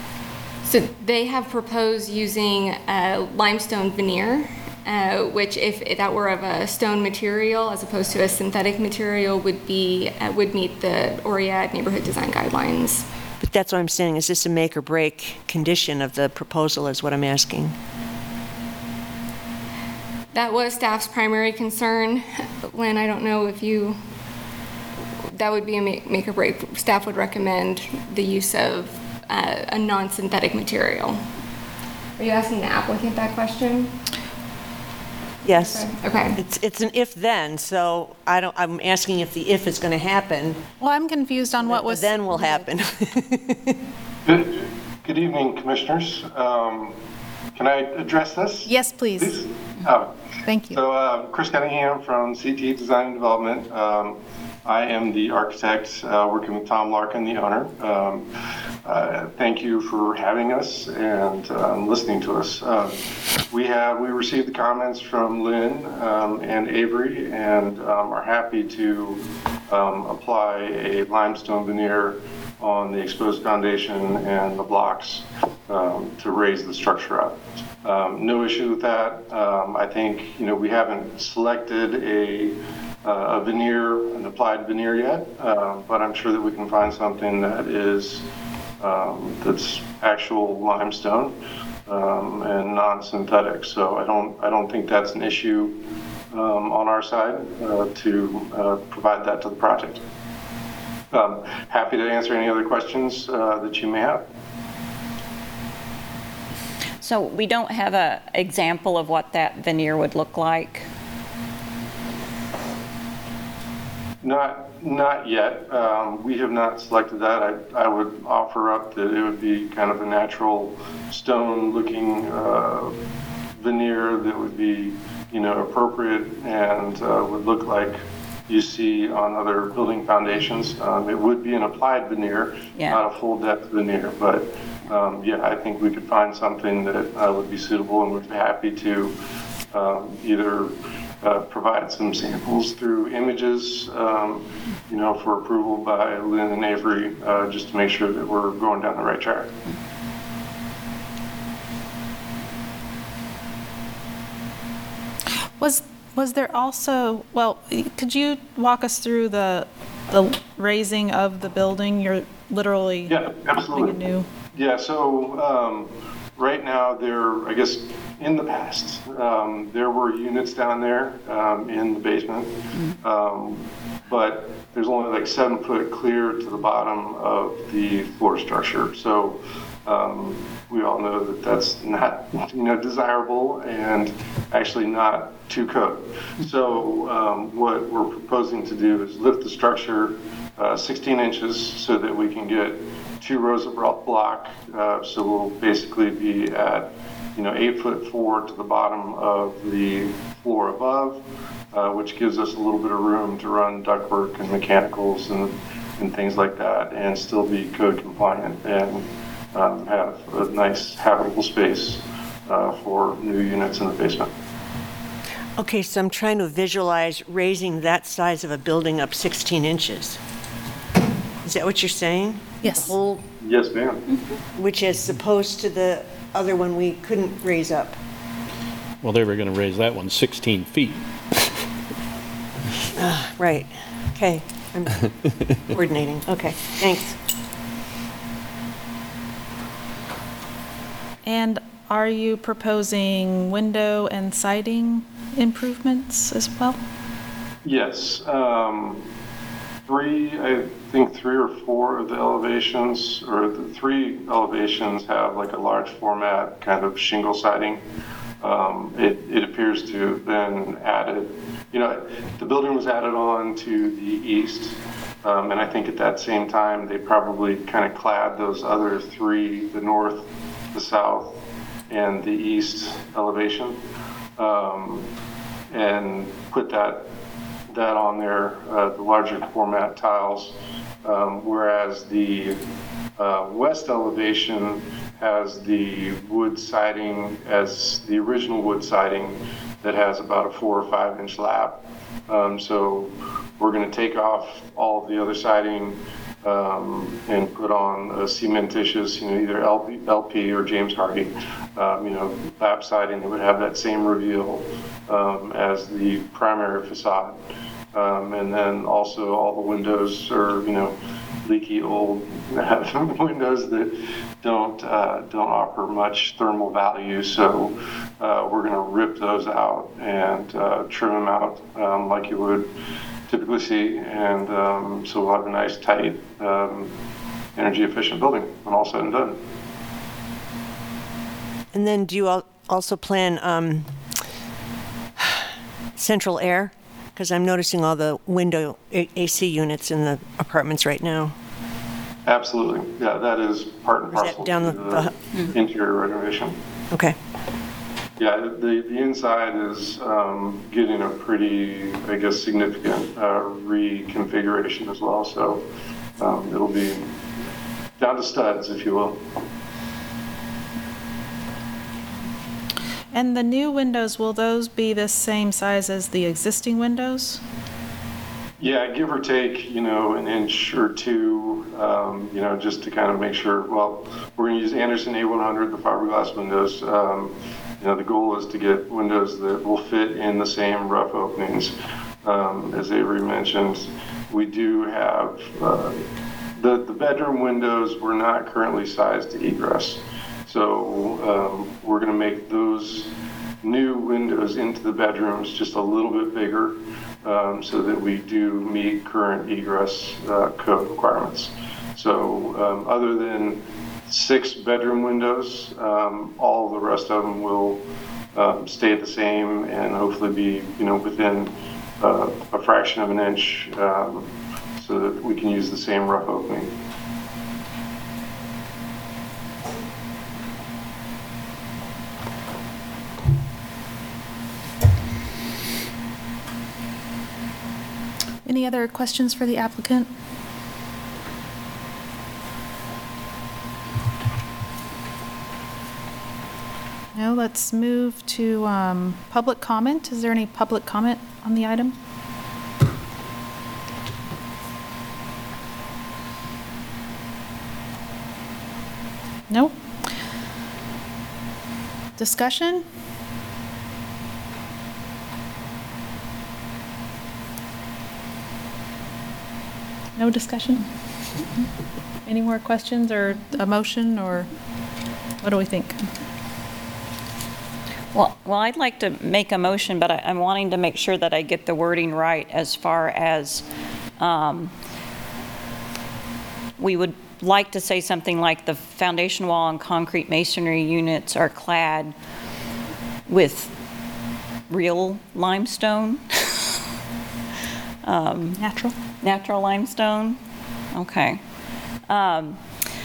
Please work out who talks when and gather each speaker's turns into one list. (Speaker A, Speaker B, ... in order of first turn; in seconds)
Speaker A: 0.7-13.0, 20.3-24.0, 25.3-31.2, 32.2-33.9, 35.5-36.4
Speaker B: 13.4-17.7, 35.4-40.6, 41.6-43.7, 215.6-220.2, 221.4-222.9, 224.6-227.9, 233.0-235.1, 235.7-237.2, 331.7-333.9, 335.2-335.4, 336.0-341.3, 344.1-345.4
Speaker C: 40.8-42.7, 48.6-49.4, 50.5-50.8, 155.6-163.2, 163.7-164.3, 222.6-223.2, 241.2-246.8, 363.1-367.4, 428.4-430.1, 437.1-441.9, 449.5-449.8, 452.2-452.8, 460.2-460.9, 462.2-464.5, 465.4-466.0, 488.6-488.9
Speaker D: 44.2-46.9, 47.5-50.1, 50.7-58.2, 58.8-63.0, 63.5-88.2, 88.8-91.3, 91.9-95.8, 96.3-100.0, 101.1-104.2, 114.2-122.9, 123.6-139.1, 139.7-149.5, 163.1-164.0, 164.5-214.3, 223.4-224.0, 247.6-249.0, 249.9-257.8, 258.4-271.4, 271.9-273.8, 274.4-275.1, 275.7-277.1, 277.7-282.6, 283.2-307.4, 307.9-322.7, 323.3-326.9, 327.6-329.4, 342.2-346.6, 348.2-355.6, 356.2-357.0, 358.0-359.2, 368.6-381.7, 382.2-386.0, 386.6-393.1, 393.6-407.8, 408.3-416.7
Speaker E: 107.0-110.9, 132.8-133.0, 468.1-473.6, 474.2-474.7, 476.8-482.1, 483.3-483.7, 484.7-486.2, 488.0-488.6, 489.2-490.4, 490.9-491.4, 492.1-492.6
Speaker F: 229.0-231.0